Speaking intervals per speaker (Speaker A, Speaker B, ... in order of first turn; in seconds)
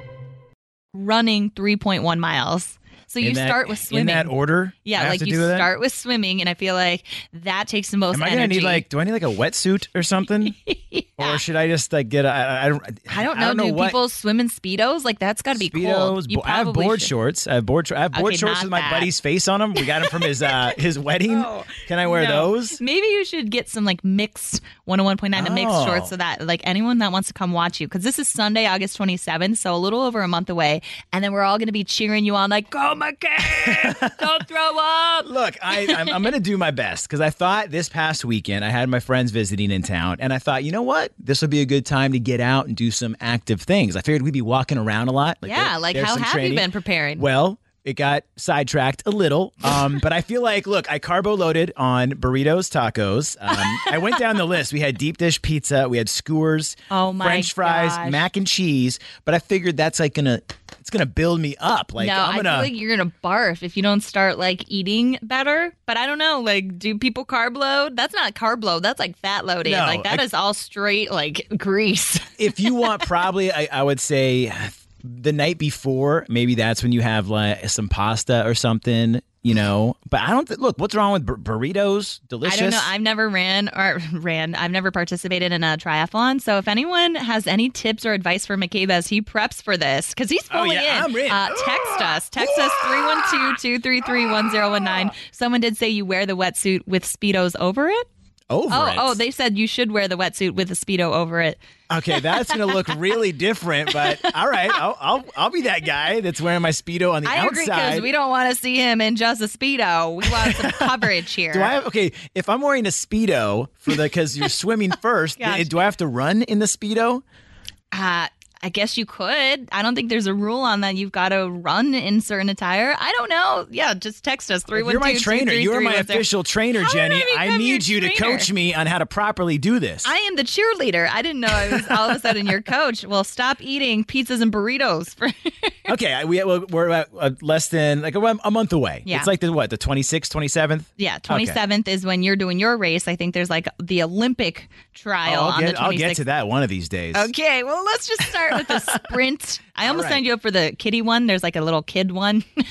Speaker A: 0.9-8.8, 10.7-11.4, 13.1-17.1, 18.1-19.1, 19.8-20.5, 21.3-36.3, 45.4-47.2, 56.9-58.2, 62.0-72.7, 82.4-98.0, 98.7-101.6, 102.1-102.8, 107.2-111.7, 115.4-115.7, 117.9-128.5, 130.0-135.8, 141.0-146.2, 147.1-152.4
Speaker B: 3.2-5.7, 8.1-10.5, 11.2-14.0, 15.5-22.8, 25.4-26.1, 33.6-34.0, 35.2-62.7, 69.6-70.2, 72.4-82.9, 90.5-93.4, 98.5-99.2, 101.9-108.1, 110.3-110.9, 111.5-117.2, 124.7-130.1, 135.9-141.6, 145.2-147.3, 148.5-148.9, 149.8-150.2